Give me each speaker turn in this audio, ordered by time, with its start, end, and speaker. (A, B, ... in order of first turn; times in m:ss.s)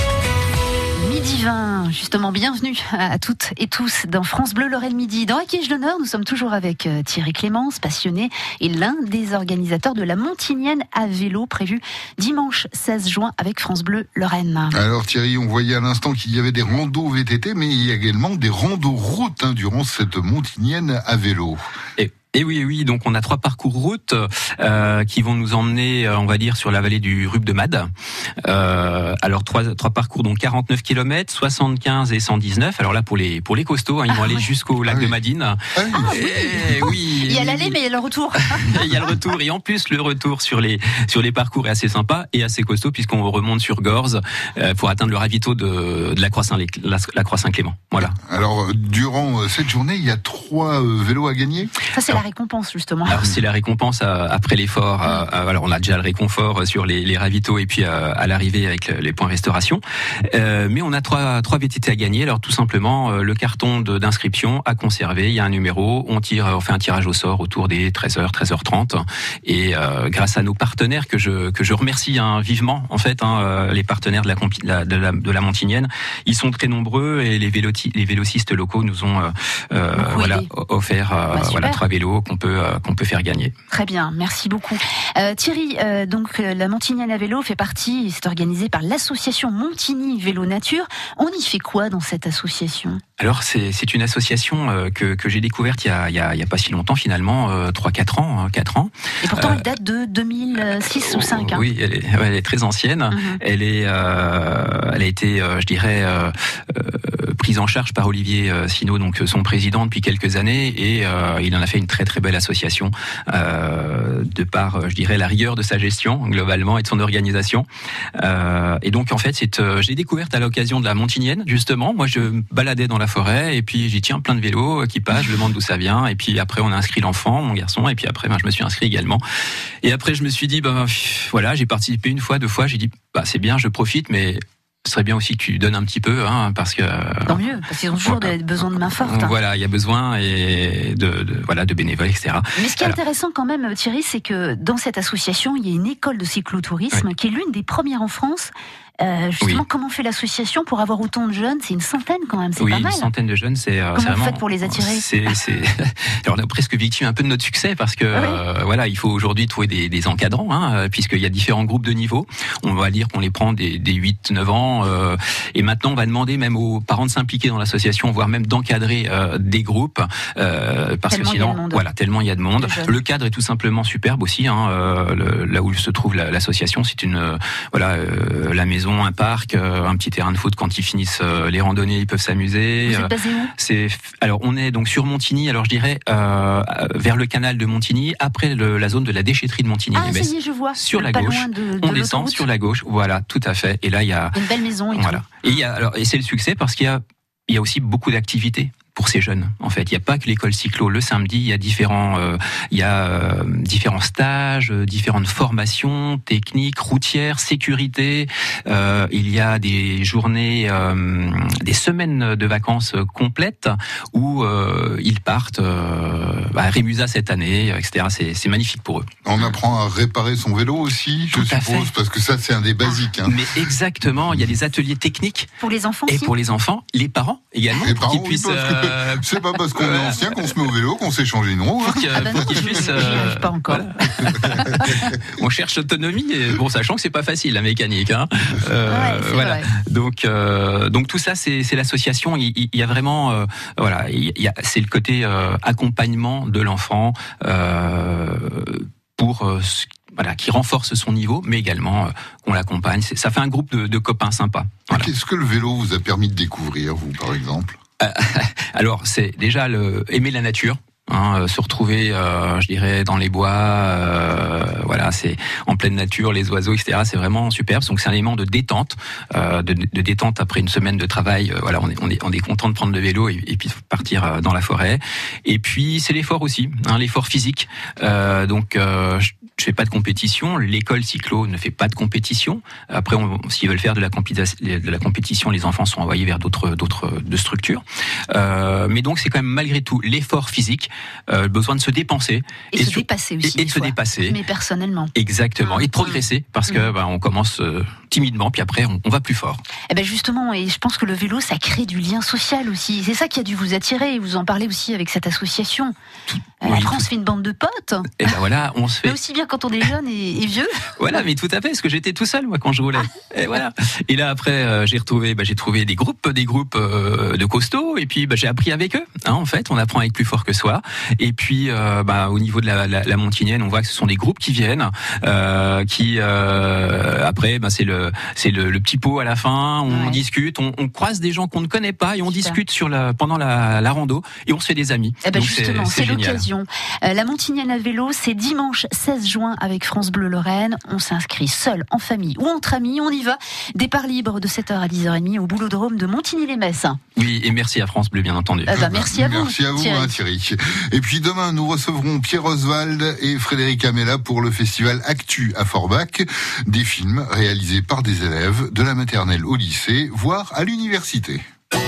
0:01.0-0:14.8 A
0:14.7-0:21.6 B
0:22.0-0:27.9 C
0:28.4-0:37.8 C
0:34.1-0:34.4 A
0:34.8-0:35.2 B
0:35.7-0:36.1 B
0:35.9-0:38.9 A
0:38.4-0:48.2 C
0:48.2-0:51.7 B
0:51.9-0:53.3 A
0:53.0-1:23.5 C
1:20.0-1:20.5 A
1:21.3-1:21.8 A
1:23.7-1:33.0 A
1:33.2-1:39.6 C
1:39.2-1:41.6 A
1:40.7-2:09.2 C
1:43.1-1:43.4 A
2:09.8-2:17.4 C
2:17.2-2:19.4 A
2:18.0-2:23.0 C
2:22.6-2:33.1 A
2:32.6-3:14.4 C
2:33.9-2:35.4 A
2:38.1-2:38.4 A
2:51.1-2:51.8 A
2:52.6-2:53.0 A
3:02.8-3:03.5 A
3:09.9-3:12.4 A
3:14.3-3:15.4 A
3:14.9-3:39.1 C
3:39.2-3:43.4 B
3:41.3-3:41.9 C
3:43.2-3:45.5 C
3:45.6-3:46.3 A
3:46.1-3:50.6 C
3:47.7-3:53.0 B
3:51.8-4:15.1 C
3:51.8-3:53.9 A
3:54.2-3:55.1 B
3:54.5-3:55.0 A
3:58.8-3:59.7 A
4:14.9-4:17.8 B
4:18.0-4:54.4 C
4:52.7-4:55.1 A
4:55.1-4:59.6 C
4:55.6-4:56.2 A
4:59.9-5:05.9 A
5:06.3-5:07.1 C
5:06.6-5:08.3 A
5:08.2-5:09.2 C
5:09.0-5:10.7 A
5:11.0-5:36.5 C
5:29.9-5:30.2 A
5:32.2-5:32.6 A
5:35.2-5:47.0 A
5:47.2-5:48.8 C
5:48.7-5:50.1 A
5:48.7-6:01.4 B